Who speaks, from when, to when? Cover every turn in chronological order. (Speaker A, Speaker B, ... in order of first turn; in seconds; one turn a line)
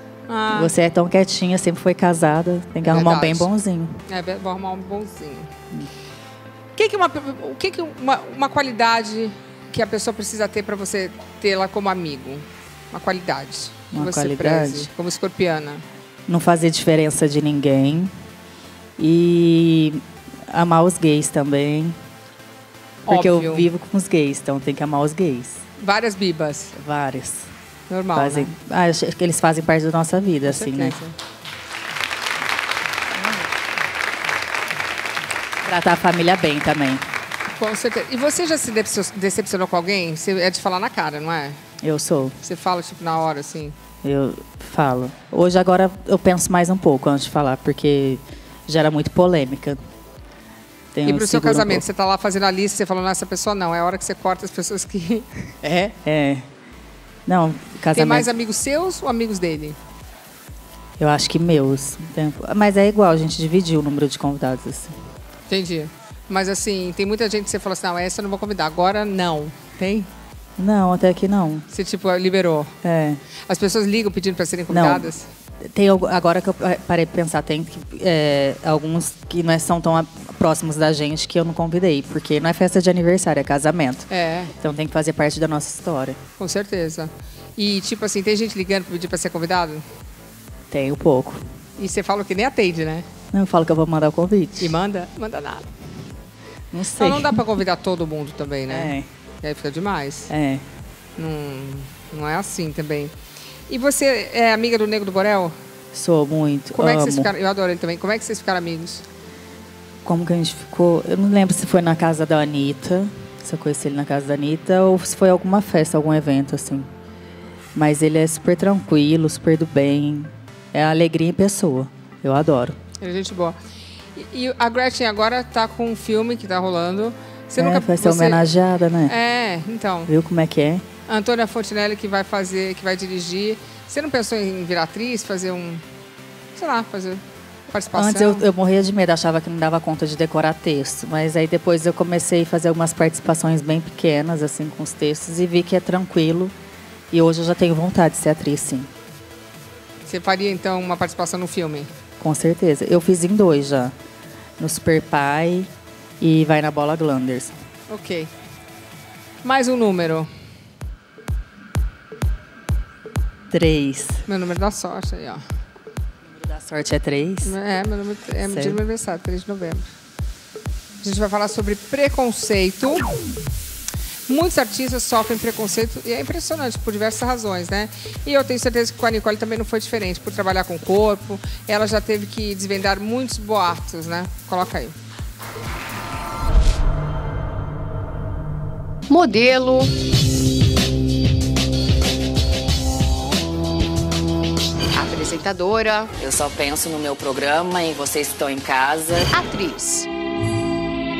Speaker A: 0.3-0.7
Speaker B: 0.5-4.0
Speaker A: 2.9-3.5
Speaker A: 4.1-5.5
Speaker A: 6.8-15.8
Speaker B: 13.9-14.9
Speaker B: 16.3-18.1
Speaker B: 19.0-22.0
Speaker A: 23.1-23.7
Speaker B: 23.1-25.6
Speaker A: 25.8-26.7
Speaker B: 26.7-27.5
Speaker A: 27.9-28.5
Speaker B: 28.1-31.0
Speaker A: 30.5-31.1
Speaker B: 35.6-37.0
Speaker A: 37.5-41.6
Speaker B: 41.8-42.4
Speaker A: 42.4-43.8
Speaker B: 44.0-49.8
Speaker B: 50.9-51.9
Speaker A: 51.1-55.3
Speaker B: 55.6-56.5
Speaker B: 57.3-58.3
Speaker A: 58.0-59.8
Speaker B: 61.0-65.0
Speaker A: 65.5-70.1
Speaker B: 70.6-71.7
Speaker A: 71.7-72.7
Speaker B: 72.8-73.2
Speaker A: 73.5-75.3
Speaker B: 74.7-84.1
Speaker A: 84.1-84.5
Speaker B: 84.6-86.2
Speaker A: 86.4-89.8
Speaker B: 90.7-91.4
Speaker A: 91.8-93.1
Speaker B: 93.3-94.8
Speaker A: 94.6-95.7
Speaker B: 96.7-97.5
Speaker A: 97.0-100.3
Speaker B: 98.7-99.1
Speaker B: 100.3-100.7
Speaker A: 101.2-103.1
Speaker A: 103.7-105.6
Speaker B: 105.9-107.3
Speaker A: 106.7-109.0
Speaker B: 110.0-116.9
Speaker B: 117.8-122.8
Speaker A: 123.0-123.6
Speaker A: 124.2-128.4
Speaker B: 127.6-129.1
Speaker A: 129.1-130.1
Speaker B: 130.1-130.9
Speaker A: 131.1-135.8
Speaker A: 136.6-138.4
Speaker B: 137.9-146.6
Speaker B: 147.1-148.9
Speaker A: 150.1-151.9
Speaker B: 152.2-153.9
Speaker B: 154.6-157.6
Speaker A: 157.9-158.3
Speaker A: 159.4-160.3
Speaker B: 163.5-164.2
Speaker A: 164.3-165.4
Speaker B: 166.3-167.6
Speaker A: 167.4-169.9
Speaker B: 168.4-168.8
Speaker A: 171.0-173.1
Speaker A: 174.3-184.9
Speaker C: 189.1-189.9
Speaker C: 194.9-196.1
Speaker D: 196.2-199.3
Speaker C: 199.3-200.1